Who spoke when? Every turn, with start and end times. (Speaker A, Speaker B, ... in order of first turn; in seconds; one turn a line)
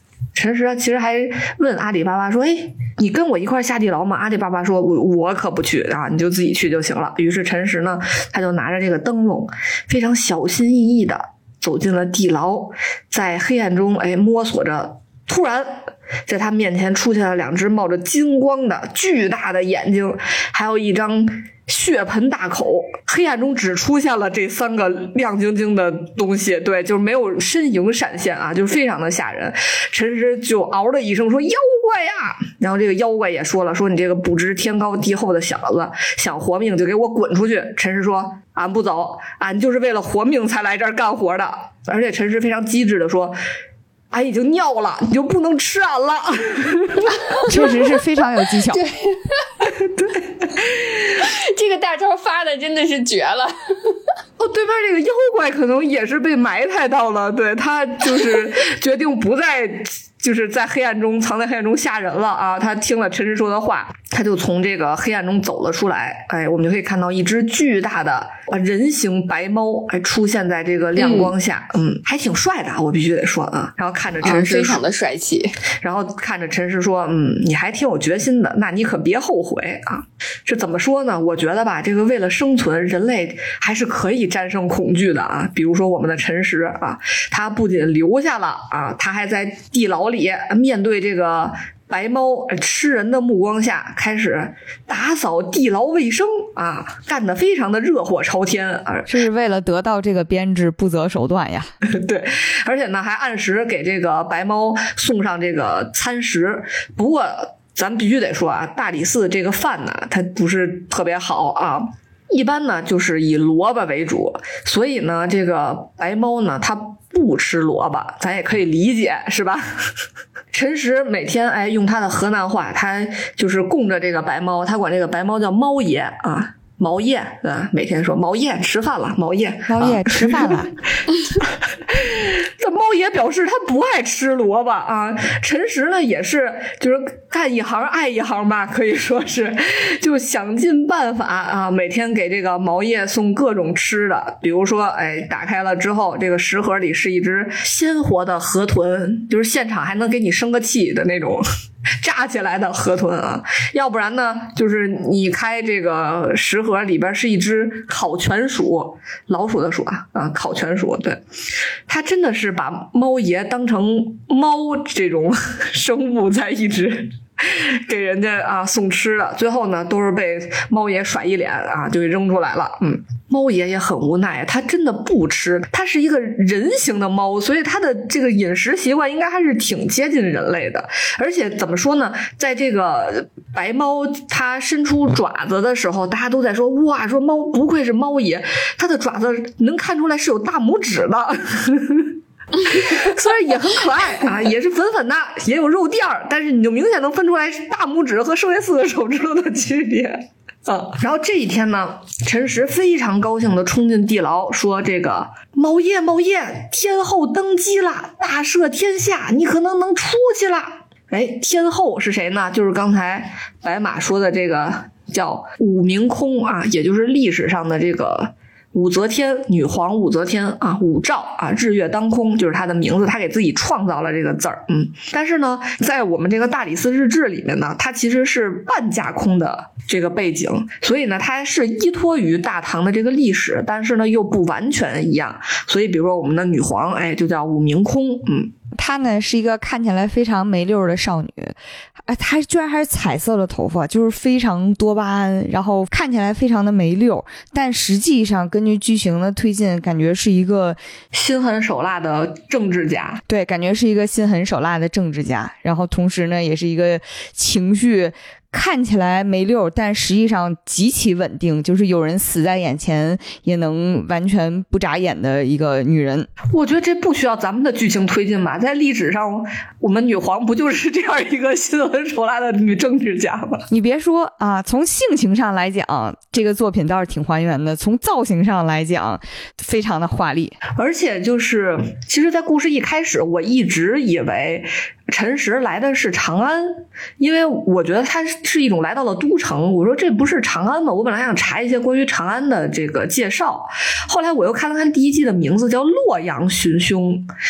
Speaker A: 0.3-43.4
Speaker A: 44.1-47.4
Speaker B: 47.5-48.8
Speaker C: 48.7-49.7
Speaker A: 49.7-50.4
Speaker C: 50.5-54.0
Speaker A: 54.4-74.8
Speaker C: 71.0-71.3
Speaker C: 74.2-75.6
Speaker A: 75.8-99.1
Speaker B: 99.1-101.7
Speaker A: 101.8-119.9
Speaker A: 120.5-130.6
Speaker B: 129.7-130.7
Speaker A: 131.2-151.4
Speaker A: 152.0-161.2
Speaker A: 161.9-238.5
Speaker B: 238.7-250.8
Speaker A: 251.1-253.2
Speaker B: 253.3-266.3
Speaker A: 266.5-273.6
Speaker B: 273.7-280.6
Speaker A: 280.8-297.3